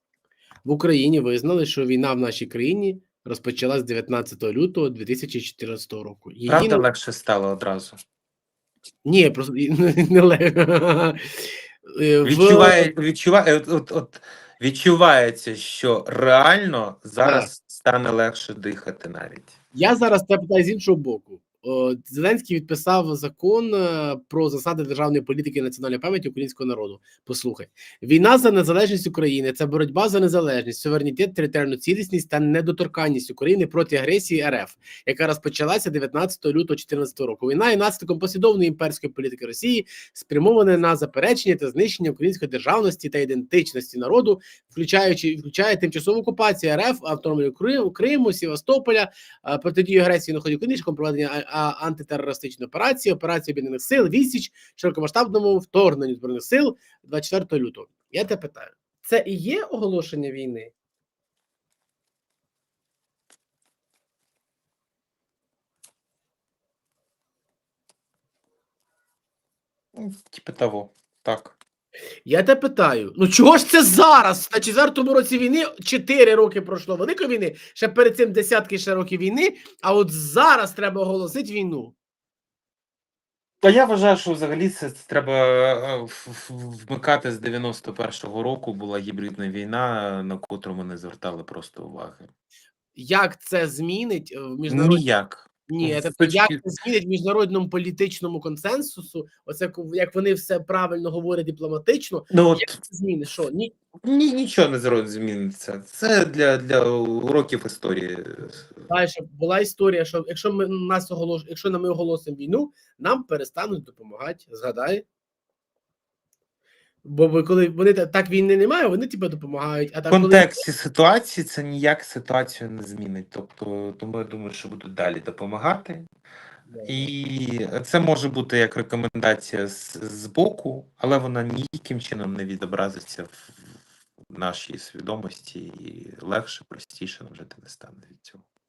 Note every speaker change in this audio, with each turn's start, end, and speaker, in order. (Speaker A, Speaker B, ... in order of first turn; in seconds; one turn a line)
Speaker A: 0.7-6.9
Speaker B: 6.5-8.0
Speaker A: 9.1-12.9
Speaker B: 12.2-19.6
Speaker A: 17.2-17.5
Speaker A: 19.7-60.7
Speaker B: 69.9-71.6
Speaker A: 72.3-82.0
Speaker B: 83.6-92.3
Speaker A: 93.0-95.0
Speaker B: 94.7-96.6
Speaker A: 95.7-103.8
Speaker B: 102.3-102.8
Speaker B: 104.0-108.6
Speaker A: 108.9-115.0
Speaker A: 117.0-120.7
Speaker B: 120.1-126.1
Speaker A: 126.7-127.1
Speaker B: 126.9-133.8
Speaker B: 134.3-138.4